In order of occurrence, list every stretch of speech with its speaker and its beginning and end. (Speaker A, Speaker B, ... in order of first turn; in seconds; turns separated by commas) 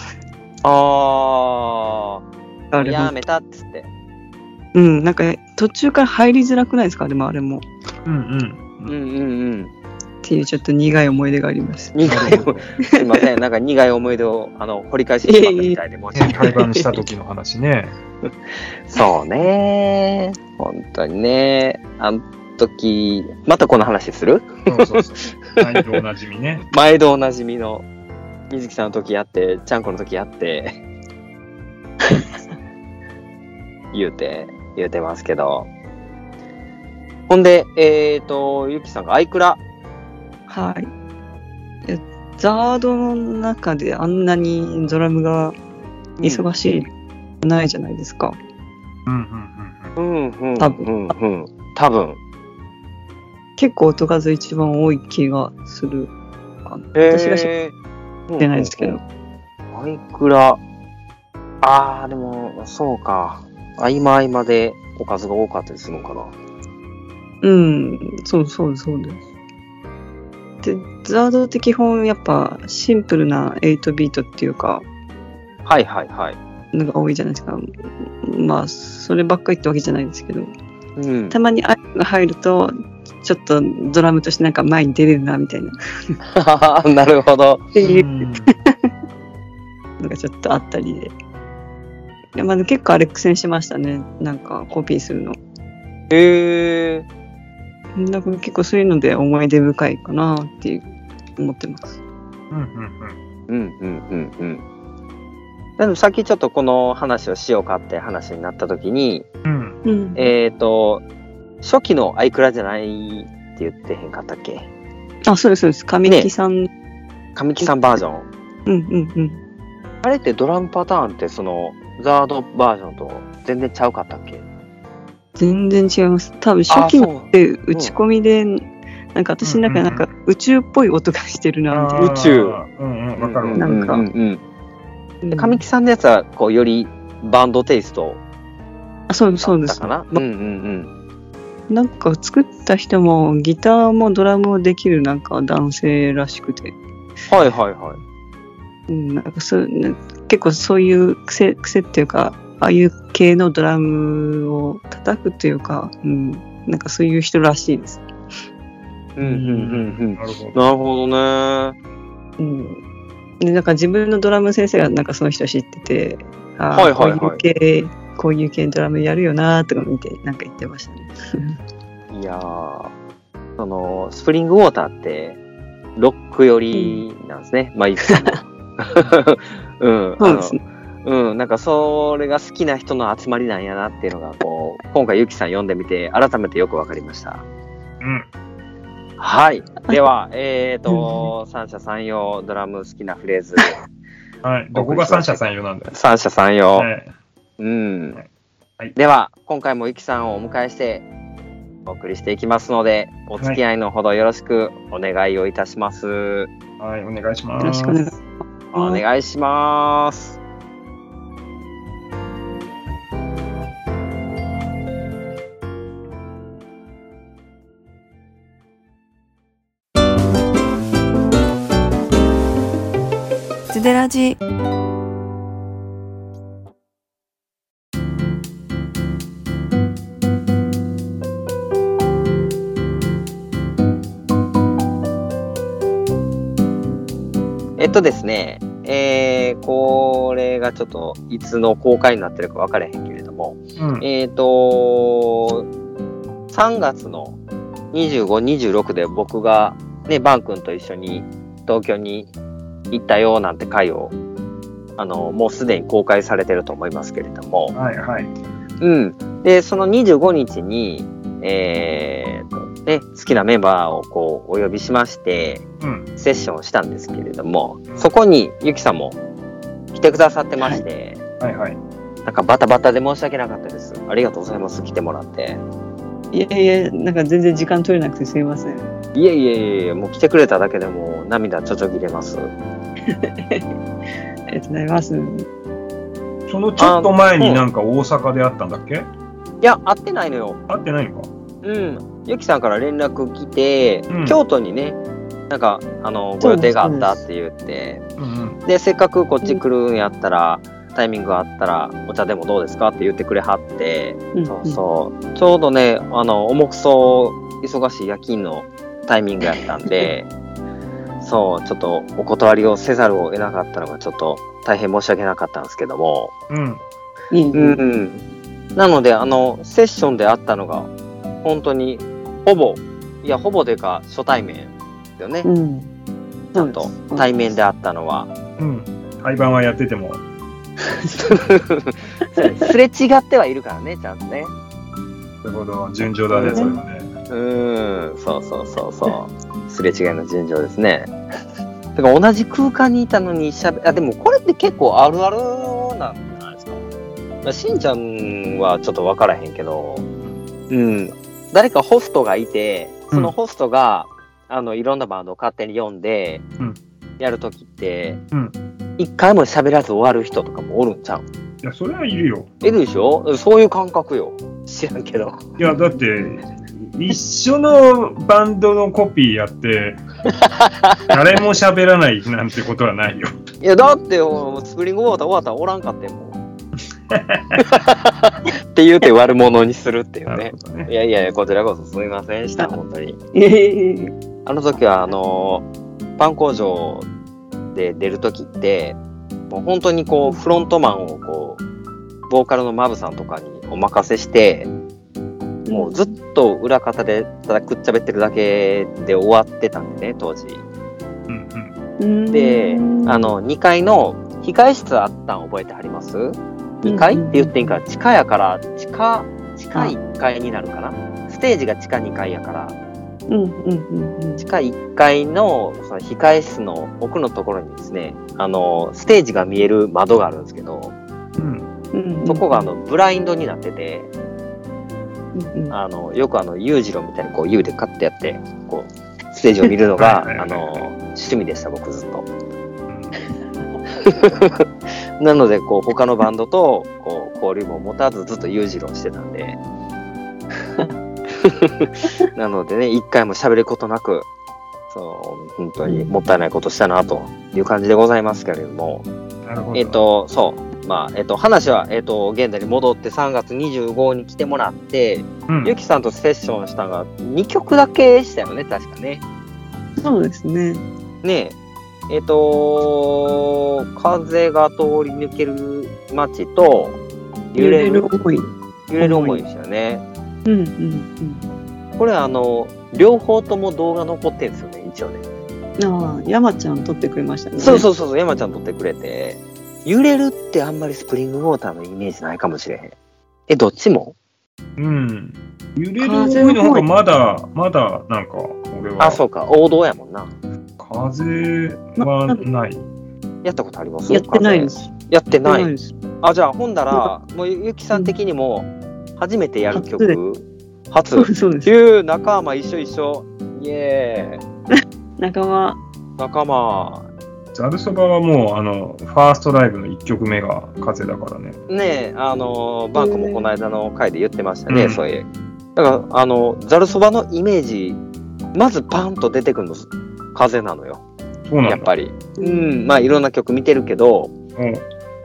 Speaker A: 0.6-2.2, Speaker B: 2.7-3.1, Speaker A: 2.8-3.9, Speaker B: 4.8-7.6, Speaker C: 8.1-8.9, Speaker A: 8.9-9.7, Speaker B: 10.2-12.8, Speaker A: 11.9-16.7, Speaker C: 12.0-12.7, Speaker B: 15.2-15.8, Speaker C: 16.1-17.9, Speaker B: 16.4-16.9, Speaker A: 18.9-26.0, Speaker C: 24.7-26.7, Speaker A: 26.7-27.9, Speaker A: 28.5-30.8, Speaker A: 33.9-35.7, Speaker A: 37.3-39.6, Speaker B: 40.5-40.9, Speaker B: 41.9-45.6, Speaker B: 46.2-46.9, Speaker B: 47.4-48.4, Speaker C: 49.1-50.0, Speaker A: 50.0-52.2, Speaker B: 50.6-50.9, Speaker B: 53.6-56.1, Speaker B: 56.6-57.5, Speaker A: 57.0-57.8, Speaker A: 58.3-59.0, Speaker B: 58.4-59.0, Speaker A: 59.7-60.6, Speaker A: 61.6-66.3, Speaker B: 67.4-69.2, Speaker B: 70.6-74.8, Speaker A: 75.7-76.4, Speaker B: 76.7-80.5, Speaker A: 81.0-81.4, Speaker B: 81.3-86.2, Speaker A: 86.3-87.7, Speaker B: 87.8-88.8, Speaker C: 87.8-88.5, Speaker B: 90.0-91.1, Speaker B: 92.3-95.4, Speaker A: 96.1-97.1, Speaker B: 98.0-102.0, Speaker C: 102.5-103.2, Speaker A: 103.5-104.6, Speaker A: 105.8-109.3, Speaker C: 109.4-109.8, Speaker B: 109.8-110.3, Speaker A: 110.2-111.0, Speaker A: 111.6-114.7, Speaker B: 115.3-116.7, Speaker A: 117.4-118.3, Speaker B: 118.7-119.4, Speaker A: 120.0-124.4, Speaker B: 125.4-132.1, Speaker A: 126.7-127.9, Speaker C: 129.4-130.1, Speaker C: 131.7-133.6, Speaker A: 132.0-132.6, Speaker A: 133.2-134.4, Speaker B: 133.6-134.0, Speaker B: 135.2-135.6, Speaker A: 135.3-138.2, Speaker B: 139.1-140.2, Speaker A: 139.3-140.9, Speaker B: 141.7-146.8, Speaker A: 147.3-148.0, Speaker B: 148.9-158.0, Speaker A: 159.2-161.8, Speaker C: 159.4-160.6, Speaker B: 162.4-162.8, Speaker B: 163.4-171.6, Speaker A: 166.7-167.4, Speaker A: 172.1-172.9, Speaker A: 173.6-175.4, Speaker A: 176.0-187.4, Speaker B: 176.7-177.0, Speaker B: 178.1-178.3, Speaker B: 180.2-180.6, Speaker C: 188.0-188.3, Speaker A: 189.2-193.8, Speaker B: 190.9-191.3, Speaker C: 194.4-195.9, Speaker A: 194.7-196.9, Speaker C: 196.8-197.1, Speaker A: 197.6-198.2, Speaker A: 198.9-201.1, Speaker A: 201.9-206.5, Speaker C: 206.8-208.0, Speaker B: 207.6-208.2, Speaker A: 208.7-210.4, Speaker B: 208.7-209.0, Speaker B: 223.7-224.4, Speaker A: 237.8-245.7, Speaker C: 243.8-244.1, Speaker A: 246.5-247.4, Speaker A: 247.9-252.3, Speaker A: 252.9-254.2, Speaker A: 255.0-257.8, Speaker C: 257.7-258.3, Speaker A: 258.8-265.6, Speaker C: 265.8-266.1, Speaker A: 266.2-269.2, Speaker A: 269.9-271.2, Speaker C: 271.4-271.8, Speaker A: 272.2-275.6, Speaker B: 276.3-278.9, Speaker A: 279.1-282.5, Speaker B: 283.1-283.7, Speaker B: 284.5-285.5, Speaker C: 286.5-289.1, Speaker A: 286.8-287.6, Speaker A: 289.6-290.6, Speaker C: 290.7-291.3, Speaker A: 291.6-295.0, Speaker C: 294.1-294.4, Speaker A: 295.5-298.0, Speaker B: 296.4-297.2, Speaker C: 298.2-298.6, Speaker A: 298.7-310.3, Speaker B: 304.3-304.8, Speaker A: 311.2-316.3, Speaker C: 316.5-316.8, Speaker B: 317.3-317.8, Speaker A: 317.5-318.2, Speaker A: 318.8-320.9, Speaker A: 321.4-325.5, Speaker B: 325.4-325.9, Speaker B: 326.5-327.3, Speaker A: 326.6-328.3, Speaker C: 328.6-330.2, Speaker A: 331.2-334.5, Speaker B: 332.4-332.7, Speaker C: 335.4-337.1, Speaker A: 336.3-336.8, Speaker B: 336.4-336.8, Speaker A: 337.3-341.1, Speaker A: 341.9-346.8, Speaker A: 347.4-350.1, Speaker A: 350.7-356.4, Speaker A: 357.2-358.2, Speaker A: 359.0-361.2, Speaker C: 361.6-362.5, Speaker A: 362.6-365.6, Speaker C: 365.6-370.0, Speaker A: 370.4-371.0, Speaker C: 371.1-373.3, Speaker A: 373.6-376.4, Speaker C: 377.1-377.6, Speaker A: 377.6-383.2, Speaker C: 380.3-380.9, Speaker B: 383.3-384.1, Speaker A: 384.5-385.7, Speaker A: 386.2-387.1, Speaker A: 387.8-389.0, Speaker A: 389.5-391.6, Speaker A: 392.3-394.7, Speaker B: 395.7-396.1, Speaker A: 395.7-400.6, Speaker C: 401.3-401.7, Speaker B: 402.0-403.3, Speaker A: 402.3-412.8, Speaker B: 406.8-407.8, Speaker B: 413.3-414.5, Speaker A: 414.4-420.9, Speaker C: 421.4-421.7, Speaker B: 421.9-422.7, Speaker A: 422.3-424.1, Speaker B: 425.4-425.8, Speaker A: 425.7-432.2, Speaker C: 430.0-430.9, Speaker C: 432.9-433.1, Speaker A: 434.0-434.6, Speaker A: 435.2-439.6, Speaker A: 441.4-444.3, Speaker A: 444.9-449.1, Speaker B: 445.9-446.1, Speaker C: 449.4-450.0, Speaker A: 449.7-459.2, Speaker C: 455.5-455.8, Speaker B: 460.0-460.8, Speaker A: 461.2-461.6, Speaker A: 462.1-467.0, Speaker A: 467.5-468.1, Speaker B: 467.6-469.4, Speaker A: 468.9-470.0, Speaker B: 470.5-471.4, Speaker A: 472.0-475.2, Speaker B: 475.8-477.9, Speaker A: 477.6-482.9, Speaker A: 483.5-484.1, Speaker C: 484.8-489.2, Speaker B: 486.0-486.9, Speaker A: 489.0-490.3, Speaker C: 490.8-492.9, Speaker B: 492.0-492.4, Speaker A: 493.4-495.7, Speaker B: 494.1-495.9, Speaker A: 496.2-504.4, Speaker B: 499.7-500.2, Speaker B: 501.1-501.7, Speaker B: 504.8-505.8, Speaker A: 506.2-507.1, Speaker C: 507.5-511.6, Speaker A: 511.7-518.0, Speaker B: 513.0-513.4, Speaker C: 514.7-515.0, Speaker A: 518.5-521.0, Speaker C: 521.5-521.9, Speaker A: 521.7-524.3, Speaker B: 522.4-522.9, Speaker C: 524.6-524.9